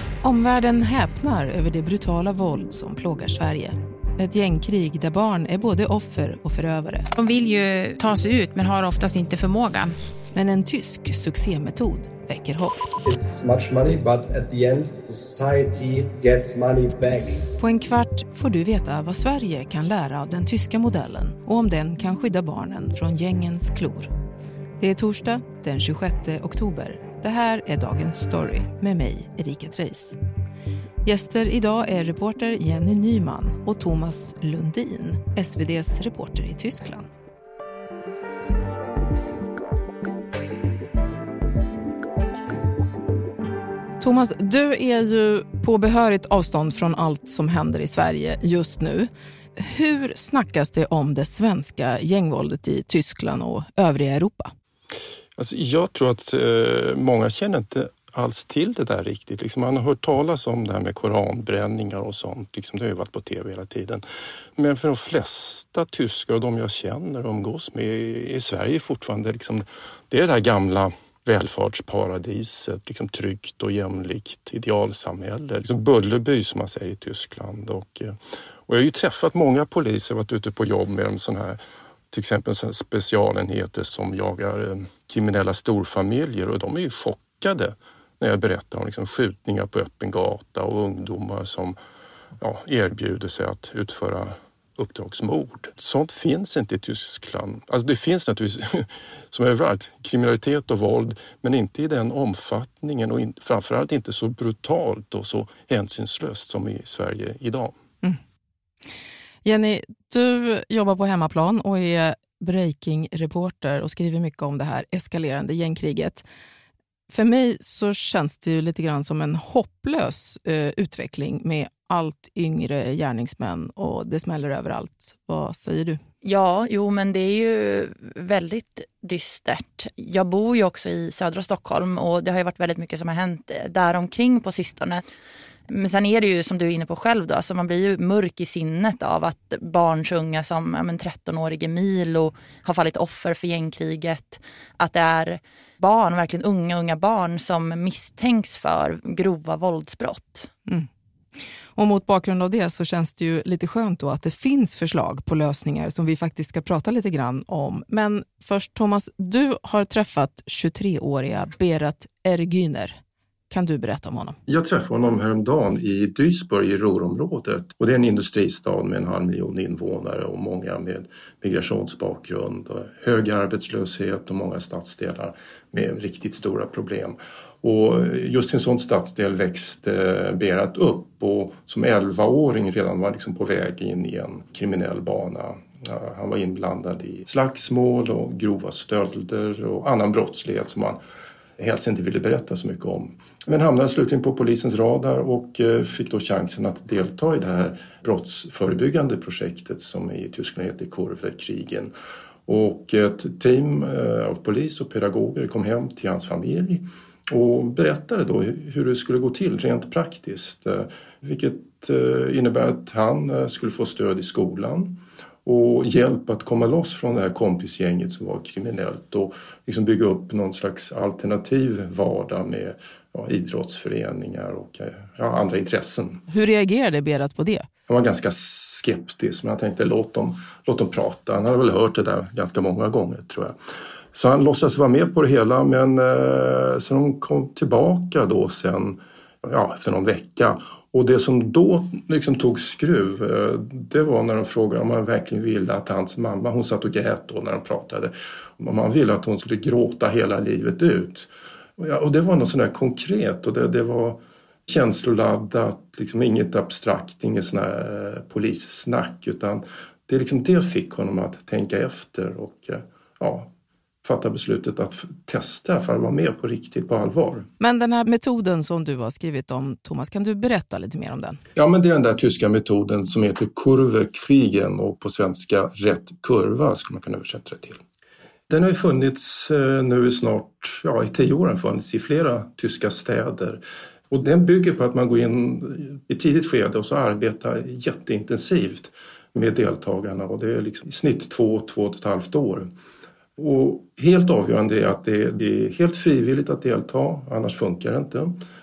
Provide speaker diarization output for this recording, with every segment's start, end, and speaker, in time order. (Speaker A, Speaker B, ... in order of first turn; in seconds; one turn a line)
Speaker A: 0.2-7.1
Speaker B: 7.2-9.9
Speaker A: 10.3-12.9
Speaker C: 13.0-17.5
Speaker A: 17.6-24.1
Speaker A: 24.8-30.1
Speaker A: 31.0-37.1
Speaker A: 44.0-54.5
Speaker D: 55.4-64.0
Speaker D: 64.6-78.1
Speaker D: 78.7-81.6
Speaker D: 82.1-91.8
Speaker D: 92.4-107.8
Speaker A: 109.4-116.2
Speaker A: 117.1-126.0
Speaker E: 126.2-135.0
Speaker E: 135.7-150.5
Speaker A: 151.7-163.0
Speaker A: 163.5-164.4
Speaker D: 164.5-191.0
Speaker D: 191.6-201.9
Speaker D: 202.5-226.2
Speaker A: 226.3-227.7
Speaker D: 227.9-233.6
Speaker D: 234.1-263.5
Speaker D: 264.0-267.5
Speaker A: 267.6-271.4
Speaker D: 271.6-277.8
Speaker D: 278.5-292.7
Speaker D: 293.4-298.3